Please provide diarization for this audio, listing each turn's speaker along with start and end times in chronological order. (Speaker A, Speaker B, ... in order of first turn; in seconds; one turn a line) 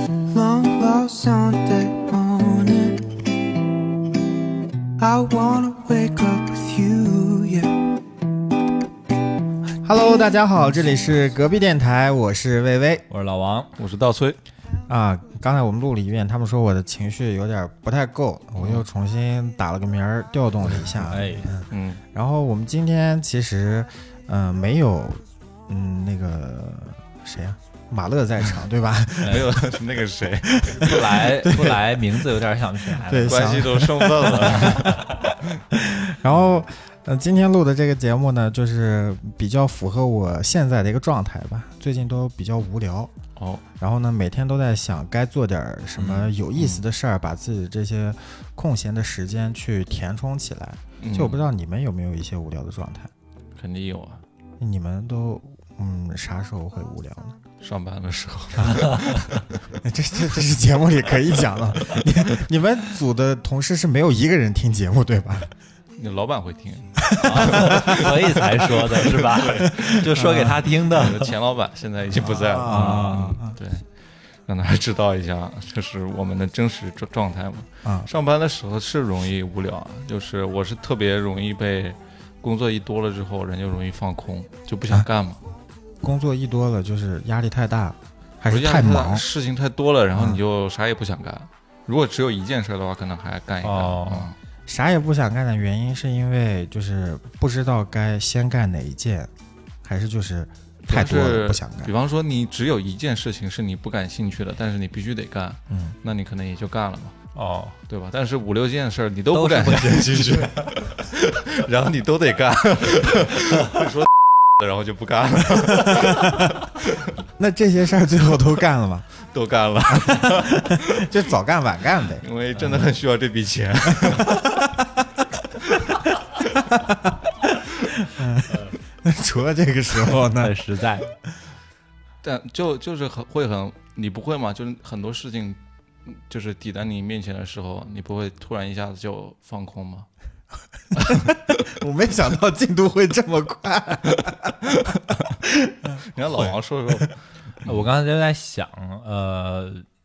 Speaker A: 0.3-3.0
Speaker A: 5.0-7.7
Speaker B: 9.8-13.1
Speaker C: 13.1-13.7
Speaker D: 13.8-14.4
Speaker B: 14.9-29.6
Speaker D: 18.6-18.8
Speaker C: 21.1-21.5
Speaker D: 21.7-22.0
Speaker C: 29.2-29.5
Speaker D: 29.2-31.0
Speaker B: 30.5-31.8
Speaker C: 30.7-33.5
Speaker B: 33.0-34.8
Speaker D: 33.2-35.5
Speaker C: 34.4-34.9
Speaker B: 35.7-43.1
Speaker D: 43.4-43.6
Speaker B: 43.8-53.1
Speaker C: 46.0-46.3
Speaker D: 46.5-46.8
Speaker D: 51.0-51.4
Speaker D: 53.6-54.2
Speaker B: 54.6-57.4
Speaker D: 57.6-59.5
Speaker C: 58.7-59.0
Speaker B: 59.8-65.5
Speaker D: 66.0-68.2
Speaker B: 67.0-68.1
Speaker C: 67.2-71.3
Speaker B: 69.4-70.7
Speaker D: 70.9-73.8
Speaker B: 72.1-73.6
Speaker C: 72.7-73.4
Speaker D: 74.4-85.4
Speaker B: 77.8-78.1
Speaker B: 86.0-89.2
Speaker D: 88.5-94.3
Speaker B: 90.1-90.4
Speaker C: 93.6-94.3
Speaker B: 94.7-99.3
Speaker B: 99.8-101.9
Speaker D: 100.9-107.2
Speaker B: 105.7-106.0
Speaker C: 107.3-107.8
Speaker D: 107.9-117.1
Speaker C: 109.3-110.7
Speaker B: 115.7-116.5
Speaker B: 117.4-119.1
Speaker D: 119.2-121.1
Speaker B: 119.9-122.2
Speaker D: 122.2-124.5
Speaker B: 123.9-125.0
Speaker B: 126.7-130.7
Speaker C: 130.4-131.1
Speaker D: 132.2-140.1
Speaker B: 140.9-144.7
Speaker D: 141.0-141.6
Speaker D: 144.7-144.9
Speaker B: 145.4-147.1
Speaker D: 146.1-147.8
Speaker C: 147.6-149.8